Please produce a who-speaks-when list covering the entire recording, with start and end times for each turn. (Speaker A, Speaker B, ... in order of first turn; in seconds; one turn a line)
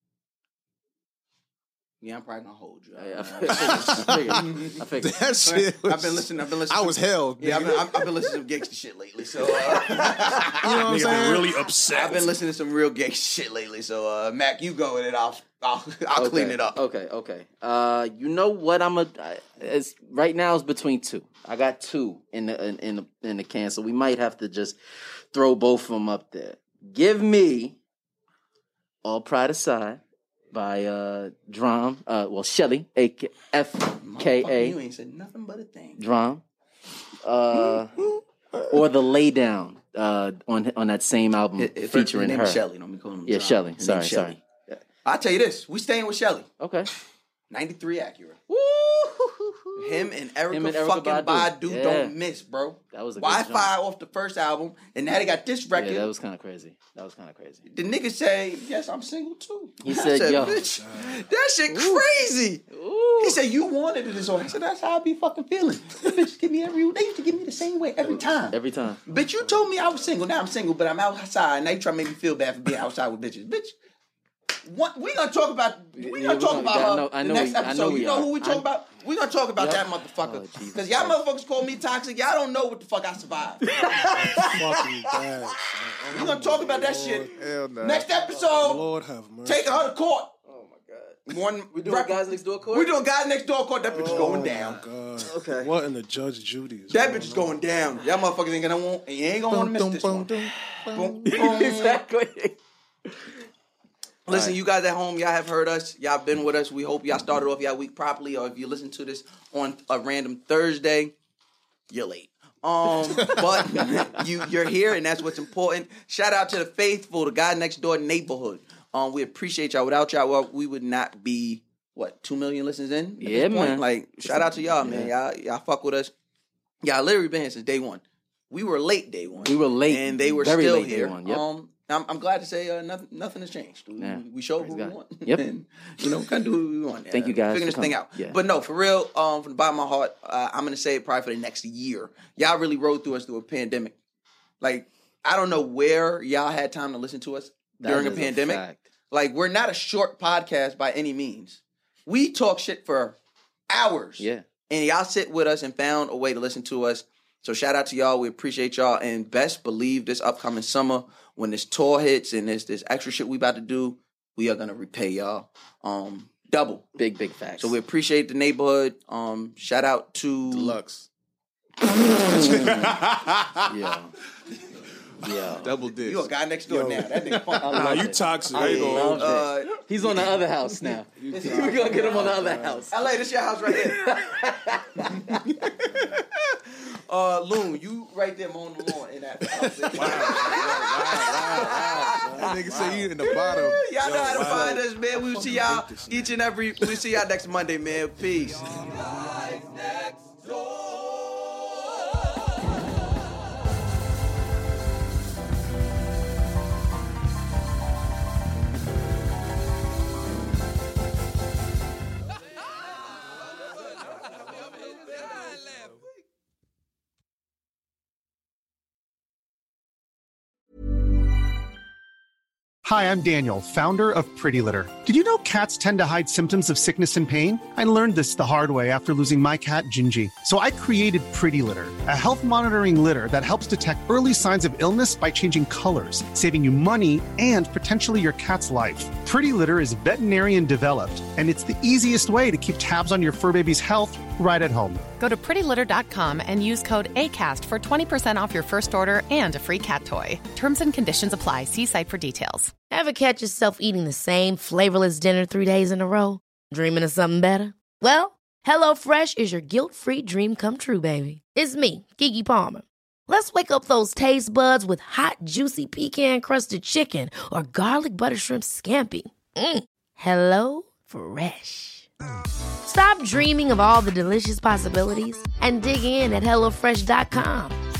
Speaker A: 2.0-4.8
Speaker B: 3.0-5.2
Speaker C: 3.5-8.1
Speaker A: 5.4-10.8
Speaker C: 10.5-11.6
Speaker D: 10.8-12.3
Speaker A: 11.9-16.8
Speaker B: 16.1-24.8
Speaker B: 25.3-27.8
Speaker B: 29.0-30.0
Speaker B: 30.5-34.8
Speaker A: 34.0-36.0
Speaker B: 36.0-36.4
Speaker B: 37.2-38.0
Speaker B: 38.7-42.6
Speaker A: 41.6-44.4
Speaker B: 43.3-44.8
Speaker A: 45.0-46.5
Speaker B: 46.6-46.9
Speaker A: 47.5-48.4
Speaker B: 48.5-52.1
Speaker A: 49.8-56.1
Speaker B: 52.9-53.7
Speaker B: 55.7-57.6
Speaker A: 57.7-62.6
Speaker B: 59.8-60.7
Speaker D: 60.3-61.2
Speaker B: 61.7-62.0
Speaker B: 62.7-63.4
Speaker A: 63.2-68.5
Speaker B: 68.5-69.0
Speaker A: 69.0-73.7
Speaker D: 69.4-70.1
Speaker A: 74.7-84.5
Speaker B: 76.0-78.6
Speaker B: 79.6-81.2
Speaker B: 83.6-84.6
Speaker D: 84.0-87.3
Speaker A: 86.1-87.3
Speaker C: 87.3-88.1
Speaker A: 87.8-88.8
Speaker D: 88.5-89.9
Speaker A: 89.4-90.5
Speaker B: 90.5-91.2
Speaker A: 91.2-95.7
Speaker B: 91.7-92.9
Speaker D: 93.9-97.6
Speaker B: 94.1-94.4
Speaker A: 96.9-100.3
Speaker C: 99.5-101.6
Speaker A: 100.9-102.0
Speaker B: 101.2-102.6
Speaker A: 104.3-111.1
Speaker B: 104.3-104.5
Speaker A: 111.9-126.1
Speaker C: 113.2-113.6
Speaker B: 123.2-125.1
Speaker A: 126.8-143.9
Speaker B: 129.4-131.4
Speaker B: 134.0-135.4
Speaker B: 137.1-138.4
Speaker A: 144.6-153.2
Speaker B: 147.8-148.8
Speaker A: 153.7-166.9
Speaker B: 154.2-154.4
Speaker B: 167.0-167.7
Speaker A: 167.6-170.8
Speaker C: 170.5-171.1
Speaker D: 172.1-173.7
Speaker B: 172.2-173.0
Speaker B: 173.7-174.1
Speaker B: 175.2-175.7
Speaker C: 175.6-176.3
Speaker A: 176.0-180.3
Speaker D: 176.7-179.2
Speaker B: 177.6-183.0
Speaker C: 178.5-179.0
Speaker D: 181.1-182.9
Speaker A: 181.4-182.2
Speaker A: 182.9-184.1
Speaker B: 183.7-185.4
Speaker A: 185.3-192.5
Speaker D: 185.9-186.2
Speaker D: 189.9-193.1
Speaker C: 190.0-191.5
Speaker C: 192.3-193.8
Speaker A: 193.3-199.0
Speaker D: 193.9-196.3
Speaker E: 222.8-245.0
Speaker F: 245.2-252.7
Speaker G: 252.9-272.1
Speaker G: 272.8-277.8